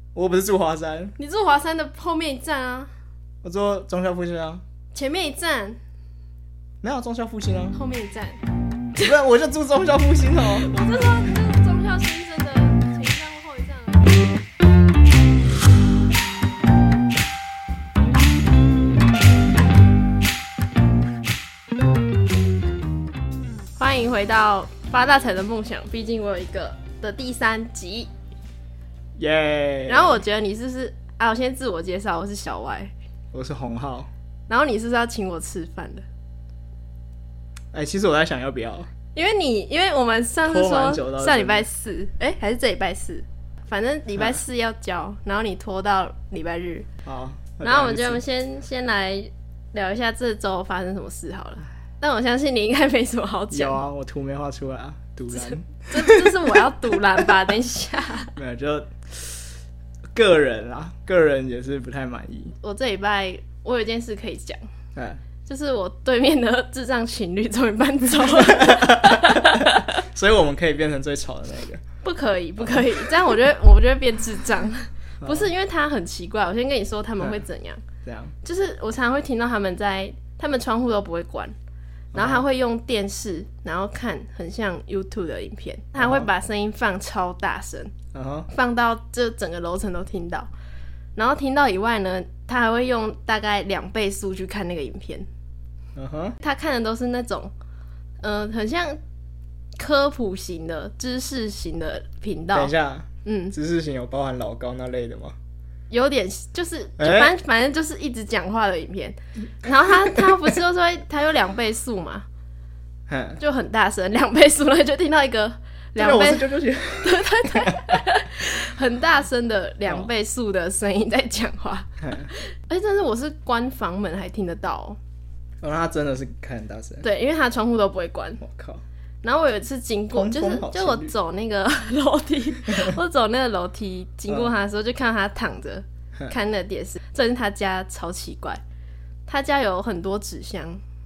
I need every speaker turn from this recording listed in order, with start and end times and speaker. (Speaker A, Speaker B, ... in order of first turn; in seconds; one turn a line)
Speaker A: 0.1-1.1
Speaker B: 1.2-2.9
Speaker A: 3.4-4.6
Speaker B: 4.9-5.8
Speaker A: 6.8-7.8
Speaker B: 7.7-8.4
Speaker A: 9.0-10.7
Speaker B: 10.6-14.3
Speaker B: 23.8-28.1
Speaker A: 29.2-30.2
Speaker B: 29.9-32.9
Speaker A: 33.3-34.1
Speaker B: 34.5-36.0
Speaker A: 37.7-38.9
Speaker B: 39.1-46.9
Speaker A: 40.4-41.6
Speaker A: 47.0-48.2
Speaker B: 47.6-53.8
Speaker A: 53.5-56.6
Speaker B: 55.3-58.3
Speaker A: 58.3-59.5
Speaker A: 60.1-62.5
Speaker B: 62.6-64.6
Speaker A: 65.0-65.2
Speaker B: 65.5-70.0
Speaker A: 68.3-71.8
Speaker B: 72.0-77.8
Speaker A: 72.6-73.0
Speaker A: 75.2-75.5
Speaker A: 78.0-78.3
Speaker B: 78.4-81.5
Speaker A: 82.1-82.4
Speaker B: 82.1-87.9
Speaker A: 85.9-86.3
Speaker A: 88.1-88.5
Speaker B: 88.5-90.5
Speaker B: 91.2-95.3
Speaker A: 96.0-96.3
Speaker B: 96.4-97.5
Speaker B: 98.2-99.0
Speaker B: 99.8-102.7
Speaker A: 102.5-105.3
Speaker B: 103.2-103.5
Speaker B: 105.9-112.2
Speaker A: 107.0-107.3
Speaker A: 113.1-113.4
Speaker B: 113.4-125.0
Speaker A: 116.0-118.0
Speaker A: 122.0-122.3
Speaker A: 125.6-127.0
Speaker B: 127.0-128.4
Speaker A: 128.4-128.8
Speaker B: 129.2-138.6
Speaker A: 130.1-131.1
Speaker B: 139.3-140.8